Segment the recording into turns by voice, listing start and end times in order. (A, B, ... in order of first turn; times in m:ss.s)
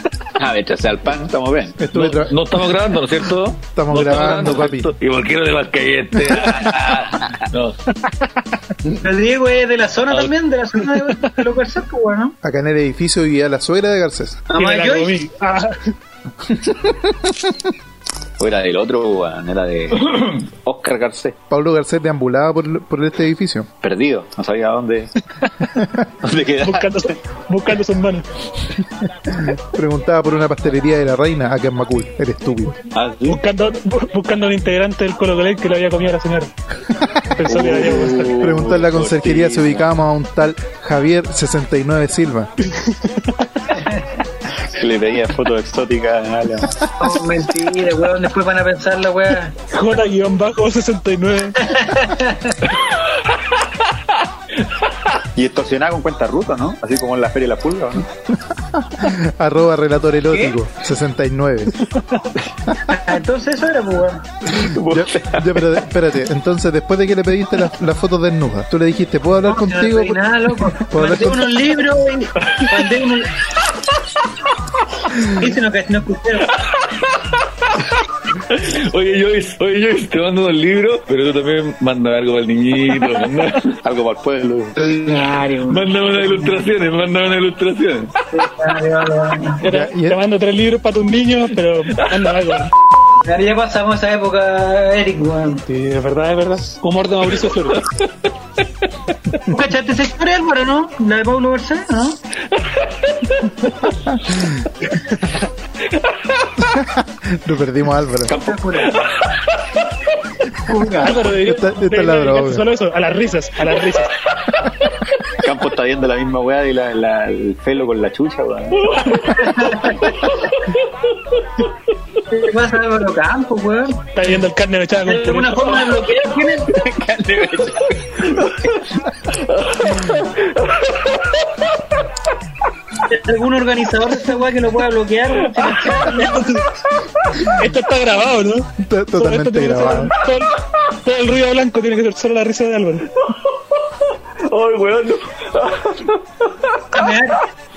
0:00.4-0:01.8 A
0:01.8-0:02.4 B
0:01.9-0:07.8 C
0:03.7-0:04.9 B
0:09.0-0:12.3 D
0:10.1-0:10.3 C
0:10.8-0:11.4 E
0:12.4-0:14.4 B
0:14.5-0:15.1 D
0:14.6-0:15.9 E
0:18.4-0:21.4 A
0:21.5-0:23.7 B
0:23.8-0:25.1 A
0:25.4-0:25.7 E
0:26.2-0:27.1 A
0:26.6-0:28.2 E
0:29.0-0:32.8 B
0:32.9-0:33.4 A
0:33.3-0:36.5 E
0:37.3-0:38.4 E
0:37.4-0:39.8 A
0:38.4-0:42.5 B
0:42.6-0:43.7 E
0:43.7-0:44.2 D
0:44.7-0:46.8 A
0:47.0-0:49.5 D
0:49.7-0:51.7 E
0:51.6-0:52.6 D
0:55.3-0:58.1 A
0:58.8-1:01.8 B
1:02.8-1:04.4 D
1:04.5-1:05.7 A
1:04.6-1:10.2 B
1:09.4-1:13.4 D
1:10.7-1:11.5 B
1:12.5-1:13.0 C
1:15.3-1:16.5 D
1:16.6-1:17.4 C
1:18.5-1:23.7 C
1:23.8-1:24.9 A
1:24.8-1:26.6 D
1:25.7-1:28.1 C
1:28.3-1:29.6 D
1:29.6-1:32.7 E
1:29.7-1:30.2 B
1:33.2-1:35.6 D
1:35.7-1:37.8 E
1:39.5-1:42.2 D
1:42.6-1:43.9 C
1:45.0-1:45.4 E
1:46.0-1:46.7 C
1:46.6-1:48.3 B
1:48.3-1:48.6 A
1:48.4-1:49.0 D
1:48.8-1:49.8 C
1:50.6-1:51.3 D
1:51.0-1:54.1 E
1:51.4-1:52.6 B
1:54.4-1:54.9 C
1:55.4-1:59.0 A
1:58.7-1:59.4 C
1:59.1-2:00.6 D
2:00.2-2:00.8 C
2:02.3-2:04.1 D
2:04.1-2:05.7 E
2:05.0-2:06.8 D
2:06.7-2:08.8 A
2:08.4-2:08.8 C
2:09.3-2:11.5 C
2:13.1-2:16.5 D
2:15.3-2:16.2 C
2:15.8-2:16.6 E
2:17.4-2:23.1 E
2:18.8-2:20.1 B
2:23.2-2:23.8 C
2:24.5-2:27.1 C
2:26.9-2:27.4 D